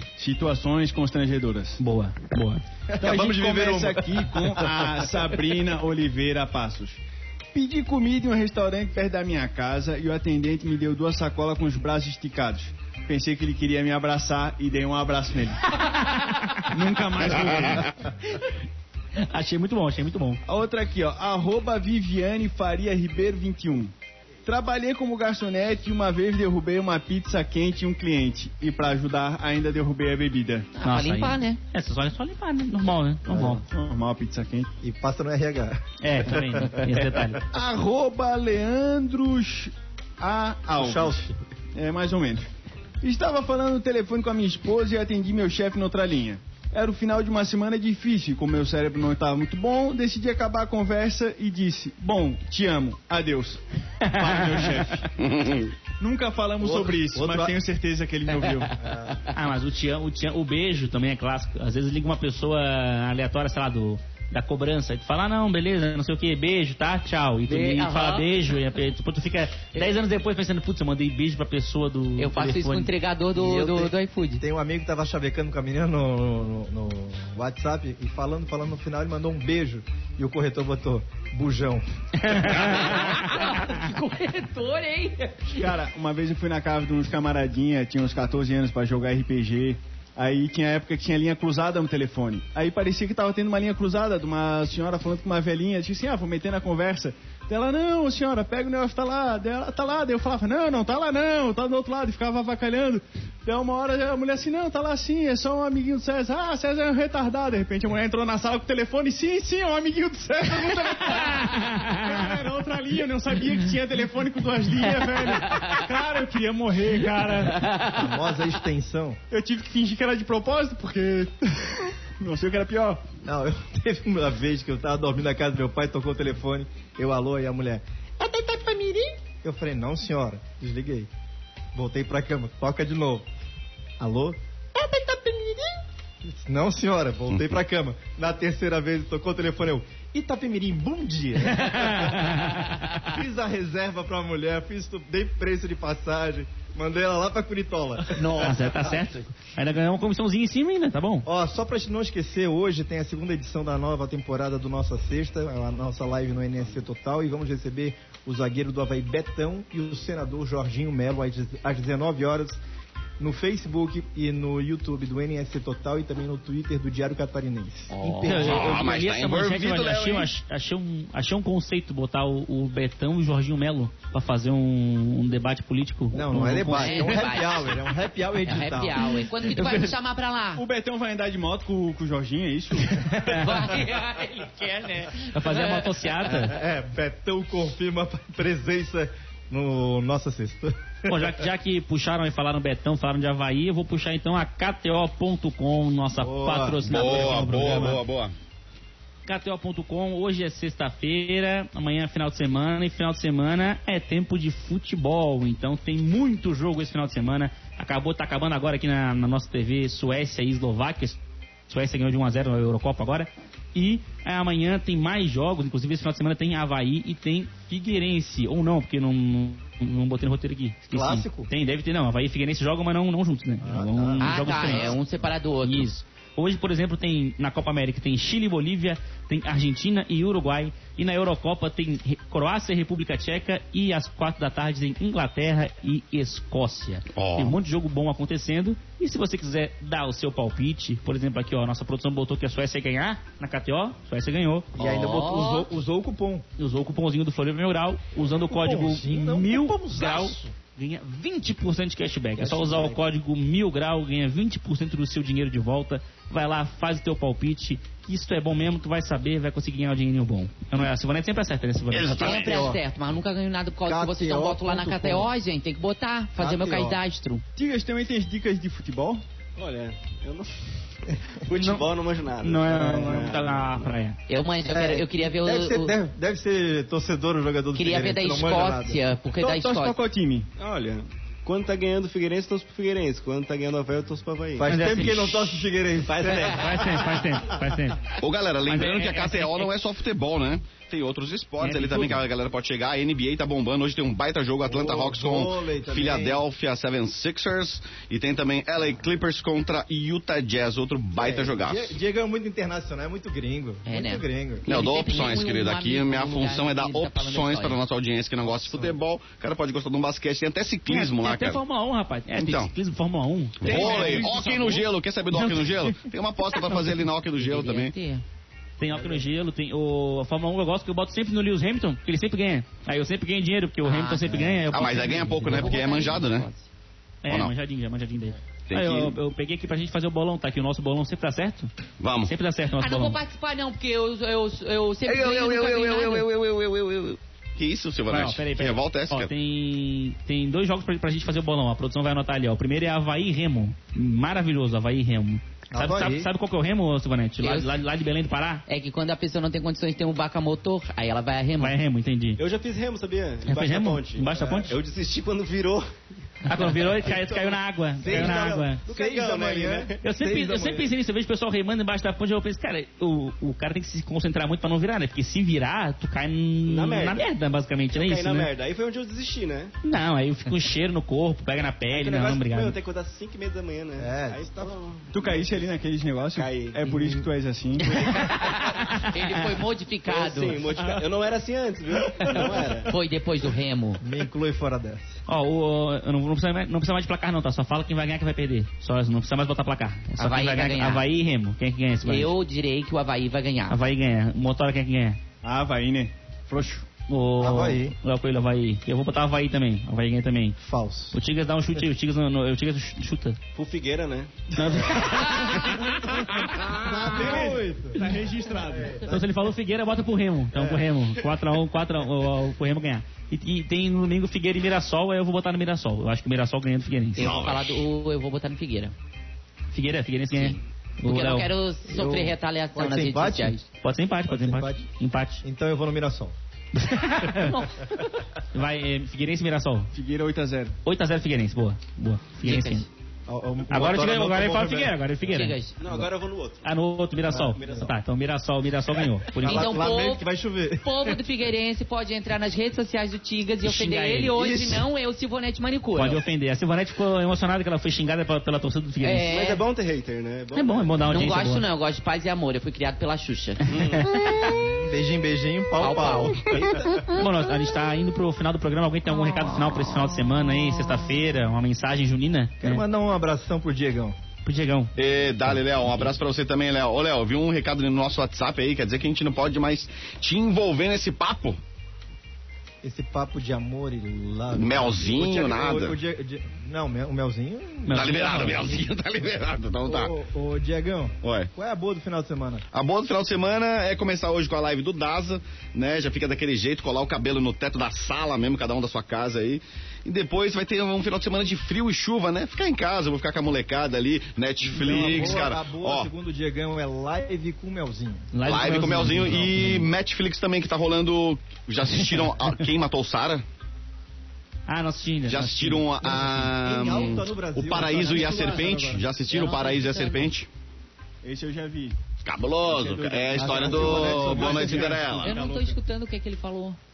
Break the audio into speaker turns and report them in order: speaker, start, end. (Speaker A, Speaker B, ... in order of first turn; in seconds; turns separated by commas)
Speaker A: 0.2-1.8, Speaker B: 1.8-2.6, Speaker C: 2.9-5.1, Speaker A: 3.0-7.0, Speaker A: 7.5-15.9, Speaker B: 15.8-16.7, Speaker A: 16.7-18.1, Speaker B: 19.2-20.4, Speaker A: 20.4-23.9, Speaker A: 24.4-30.7, Speaker D: 30.7-31.6, Speaker B: 30.8-33.6, Speaker C: 33.3-33.6, Speaker A: 33.7-34.7, Speaker C: 34.8-37.2, Speaker B: 36.0-37.4, Speaker A: 37.5-42.5, Speaker C: 40.8-41.3, Speaker A: 43.0-55.1, Speaker B: 54.0-54.7, Speaker E: 55.2-55.7, Speaker A: 56.0-58.7, Speaker C: 56.6-57.5, Speaker C: 58.8-59.2, Speaker B: 59.3-72.9, Speaker D: 67.5-68.6, Speaker D: 72.2-74.4, Speaker C: 73.3-81.8, Speaker B: 82.2-83.8, Speaker D: 82.5-85.7, Speaker A: 85.6-117.7, Speaker B: 111.3-112.0, Speaker C: 117.8-119.2, Speaker A: 119.3-123.0, Speaker C: 123.2-131.1, Speaker C: 131.7-133.2, Speaker C: 134.0-148.8, Speaker B: 141.4-143.1, Speaker B: 148.2-151.2, Speaker D: 148.3-148.6, Speaker C: 151.2-162.6, Speaker C: 163.2-168.6, Speaker D: 167.9-168.6, Speaker B: 168.2-177.1, Speaker E: 168.4-170.3, Speaker C: 176.1-179.3, Speaker D: 176.3-177.8, Speaker D: 178.4-180.6, Speaker A: 180.6-183.1, Speaker B: 183.0-183.7, Speaker D: 183.3-186.4, Speaker B: 185.2-186.6, Speaker C: 186.3-191.3, Speaker B: 191.1-198.0, Speaker C: 196.2-198.0, Speaker E: 196.8-198.3, Speaker B: 199.2-211.2, Speaker B: 211.7-225.0, Speaker C: 220.9-221.5, Speaker C: 223.6-224.9, Speaker D: 224.2-225.9, Speaker B: 225.6-244.8, Speaker E: 237.1-237.6, Speaker C: 244.7-246.4, Speaker D: 244.9-245.7, Speaker B: 246.6-262.4, Speaker C: 248.5-250.5, Speaker C: 252.4-253.0, Speaker E: 261.9-262.7, Speaker D: 262.1-267.4, Speaker C: 262.4-262.8, Speaker C: 263.9-265.3, Speaker C: 266.4-267.0, Speaker A: 267.6-269.2, Speaker F: 269.6-270.6, Speaker F: 271.4-273.8, Speaker B: 271.5-271.8, Speaker B: 272.4-274.2, Speaker C: 272.7-273.3, Speaker D: 274.3-275.9, Speaker C: 274.7-279.0, Speaker D: 277.7-280.0, Speaker A: 279.4-280.5, Speaker F: 280.6-284.8, Speaker C: 284.6-287.6, Speaker B: 284.7-285.5, Speaker F: 286.1-286.9, Speaker B: 286.3-288.1, Speaker E: 288.2-301.9, Speaker B: 288.6-289.7, Speaker B: 291.6-292.2, Speaker C: 294.6-296.4, Speaker C: 301.2-304.7, Speaker D: 303.9-307.8, Speaker E: 304.6-311.6, Speaker C: 308.4-309.0, Speaker B: 310.9-314.3, Speaker E: 312.4-312.7, Speaker E: 313.6-317.9, Speaker D: 313.9-314.9, Speaker B: 315.4-315.7, Speaker D: 317.4-318.2, Speaker B: 318.8-325.7, Speaker C: 318.9-319.2, Speaker D: 323.8-326.7, Speaker E: 324.7-326.5, Speaker B: 327.2-331.7, Speaker E: 327.3-327.5, Speaker E: 328.7-329.1, Speaker E: 332.0-332.3, Speaker B: 332.2-333.2, Speaker D: 332.8-336.3, Speaker E: 335.0-339.3, Speaker B: 338.1-348.6, Speaker C: 345.7-346.3, Speaker D: 347.4-347.8, Speaker D: 348.7-351.7, Speaker B: 351.6-352.4, Speaker F: 352.4-355.8, Speaker B: 353.5-354.7, Speaker C: 354.4-354.7, Speaker F: 356.4-357.4, Speaker B: 356.5-358.8, Speaker C: 358.0-360.9, Speaker F: 358.1-360.0, Speaker B: 360.0-368.5, Speaker F: 366.6-367.3, Speaker F: 367.9-369.7, Speaker B: 369.8-372.8, Speaker F: 371.9-375.4, Speaker C: 374.0-374.7, Speaker A: 375.1-377.9, Speaker F: 376.3-376.8, Speaker C: 376.8-377.3, Speaker F: 377.9-378.7, Speaker D: 378.1-380.6, Speaker B: 378.7-379.1, Speaker F: 380.1-382.9, Speaker B: 382.1-382.3, Speaker D: 382.9-384.0, Speaker C: 384.0-385.2, Speaker B: 385.3-392.3, Speaker D: 390.2-391.0, Speaker D: 392.0-393.8, Speaker B: 393.7-395.2, Speaker A: 395.4-396.9, Speaker B: 397.1-400.6, Speaker C: 397.4-397.9, Speaker C: 400.6-401.2, Speaker B: 401.1-403.4, Speaker F: 403.5-404.5, Speaker B: 404.5-406.9, Speaker C: 406.6-409.2, Speaker A: 406.9-409.1, Speaker B: 409.1-417.3, Speaker C: 410.5-410.9, Speaker E: 417.2-417.8, Speaker D: 417.2-418.9, Speaker B: 419.7-421.5, Speaker D: 420.3-423.6, Speaker C: 421.9-423.5, Speaker B: 423.8-425.4, Speaker C: 424.2-424.9, Speaker C: 425.4-426.3, Speaker B: 426.7-427.6, Speaker D: 427.3-428.2, Speaker B: 428.5-429.9, Speaker A: 429.9-430.7, Speaker B: 430.8-432.9, Speaker D: 432.4-432.9, Speaker C: 433.3-435.1, Speaker B: 433.7-435.6, Speaker D: 435.3-435.7, Speaker F: 435.8-436.6, Speaker B: 436.6-439.9, Speaker C: 437.3-437.8, Speaker F: 437.6-437.9, Speaker C: 439.4-441.2, Speaker D: 439.4-440.3, Speaker D: 440.8-446.2, Speaker B: 443.6-444.8, Speaker B: 445.9-449.2, Speaker D: 449.0-449.6, Speaker F: 449.3-451.3, Speaker B: 450.5-451.6, Speaker D: 451.1-453.6, Speaker F: 453.7-454.1, Speaker B: 453.7-454.5, Speaker C: 454.4-457.0, Speaker D: 455.8-457.1, Speaker B: 457.1-462.8, Speaker C: 462.6-464.2, Speaker B: 464.4-464.9, Speaker E: 465.0-471.6, Speaker C: 472.8-478.8, Speaker E: 474.5-476.0, Speaker B: 477.8-478.8, Speaker E: 477.9-480.1, Speaker C: 479.8-482.6, Speaker E: 481.2-481.5, Speaker E: 482.7-496.1, Speaker C: 494.6-498.3, Speaker B: 498.3-499.9, Speaker E: 498.4-503.4, Speaker B: 504.7-505.9, Speaker E: 505.3-510.5, Speaker C: 506.0-509.1, Speaker D: 509.3-510.3, Speaker A: 511.2-512.0, Speaker E: 512.2-515.4, Speaker A: 512.7-515.7, Speaker C: 513.0-515.4, Speaker D: 515.2-516.8